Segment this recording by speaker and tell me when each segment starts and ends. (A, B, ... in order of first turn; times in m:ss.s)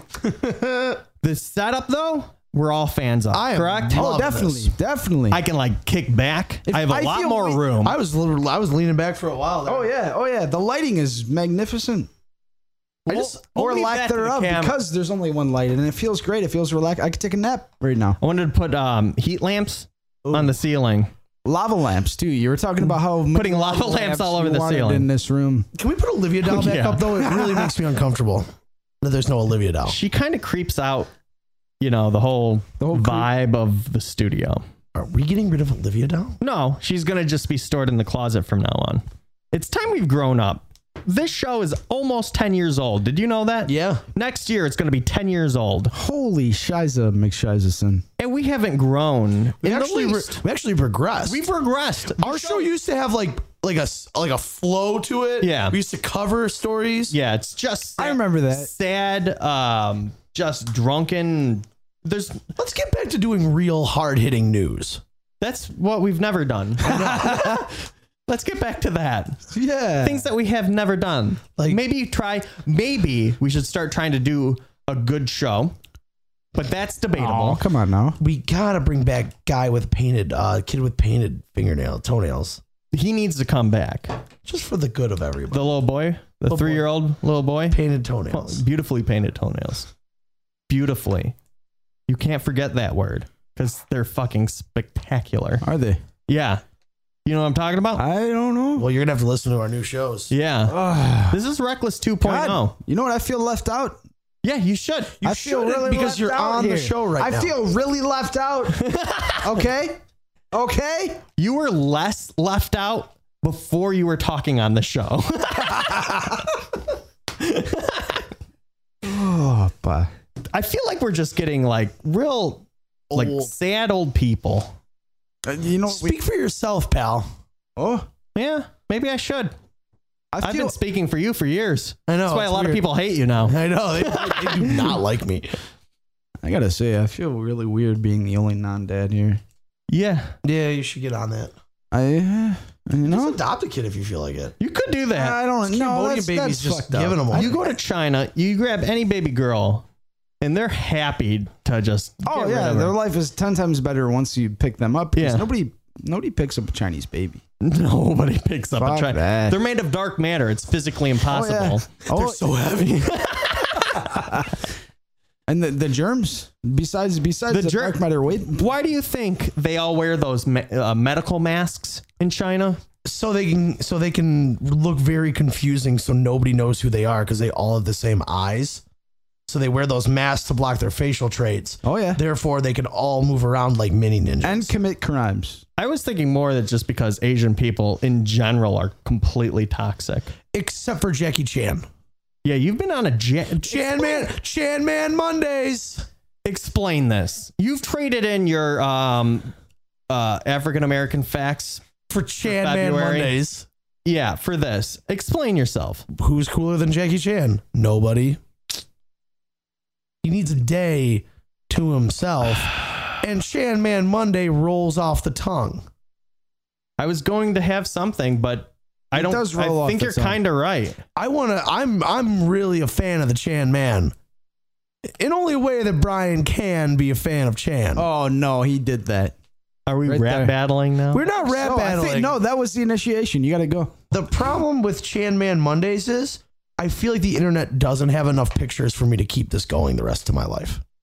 0:00.2-0:01.0 A
0:01.2-0:04.1 B
0:03.3-0:04.7 A
0:03.9-0:05.4 C
0:05.3-0:08.0 B
0:06.7-0:07.6 C
0:07.8-0:09.9 A
0:09.6-0:12.1 C
0:13.0-0:14.8 B
0:13.1-0:13.4 A
0:13.4-0:18.2 C
0:18.2-0:21.1 B
0:20.2-0:20.5 A
0:21.4-0:25.7 C
0:23.3-0:25.1 B
0:25.8-0:28.5 A
0:26.4-0:27.1 B
0:27.2-0:27.7 C
0:29.0-0:30.0 A
0:29.9-0:31.1 B
0:31.8-0:34.6 B
0:32.8-0:33.3 C
0:34.9-0:36.4 A
0:36.4-0:45.9 B
0:43.6-0:44.0 A
0:45.9-0:48.0 C
0:48.2-0:50.4 B
0:49.6-0:51.4 A
0:51.2-0:52.7 B
0:52.2-0:57.1 A
0:55.4-0:55.8 B
0:57.1-1:02.5 B
0:58.0-0:58.7 C
1:02.6-1:05.0 A
1:05.4-1:09.4 B
1:06.8-1:07.6 A
1:09.5-1:10.2 C
1:10.0-1:15.8 B
1:16.5-1:17.6 B
1:17.1-1:18.2 C
1:18.2-1:22.6 A
1:22.9-1:24.1 B
1:24.4-1:25.7 A
1:25.5-1:27.8 B
1:26.5-1:26.9 A
1:27.7-1:28.6 A
1:28.3-1:29.9 B
1:30.7-1:31.4 B
1:32.1-1:35.6 B
1:35.6-1:36.0 C
1:36.3-1:36.6 B
1:37.2-1:38.0 B
1:38.0-1:38.9 C
1:38.8-1:40.3 A
1:40.3-1:42.8 B
1:40.7-1:41.4 C
1:42.2-1:44.0 C
1:44.4-1:45.1 B
1:45.2-1:47.5 A
1:45.2-1:48.8 C
1:48.7-1:49.6 B
1:49.4-1:50.0 C
1:50.5-1:51.2 C
1:51.4-1:56.4 B
1:57.4-1:58.2 B
1:59.0-2:00.1 C
2:00.5-2:04.8 B
2:03.1-2:03.5 A
2:05.4-2:06.2 C
2:05.9-2:07.3 A
2:07.8-2:08.1 C
2:08.4-2:09.5 B
2:10.3-2:10.7 C
2:10.4-2:14.9 B
2:12.1-2:12.9 A
2:13.4-2:15.5 A
2:16.4-2:19.4 C
2:19.9-2:20.3 B
2:20.4-2:21.5 A
2:21.9-2:23.4 C
2:23.0-2:24.6 A
2:24.6-2:25.4 B
2:25.1-2:27.6 C
2:25.7-2:27.7 A
2:27.3-2:29.9 B
2:30.4-2:32.9 B
2:32.2-2:37.4 C
2:35.2-2:35.5 B
2:37.6-2:41.9 B
2:38.8-2:39.6 C
2:41.3-2:42.4 C
2:42.1-2:43.5 A
2:42.8-2:44.1 B
2:43.9-2:44.6 C
2:45.5-2:48.6 C
2:47.5-2:48.0 B
2:48.5-2:52.8 B
2:53.0-2:58.8 A
2:59.5-3:04.7 A
3:01.8-3:02.2 C
3:04.4-3:05.6 C
3:05.8-3:10.3 B
3:10.5-3:11.9 A
3:12.4-3:14.3 B
3:13.6-3:16.1 A
3:16.4-3:19.5 B
3:20.1-3:21.8 B
3:22.1-3:23.7 A
3:22.4-3:23.3 B
3:24.0-3:26.0 B
3:26.1-3:28.4 A
3:30.2-3:35.8 A
3:37.0-3:41.0 B
3:39.1-3:40.4 C
3:41.2-3:44.1 A
3:45.2-3:48.1 A
3:48.0-3:49.4 C
3:49.9-3:51.3 B
3:50.1-3:50.5 C
3:51.1-3:52.3 A
3:51.4-3:54.0 C
3:54.1-4:00.8 A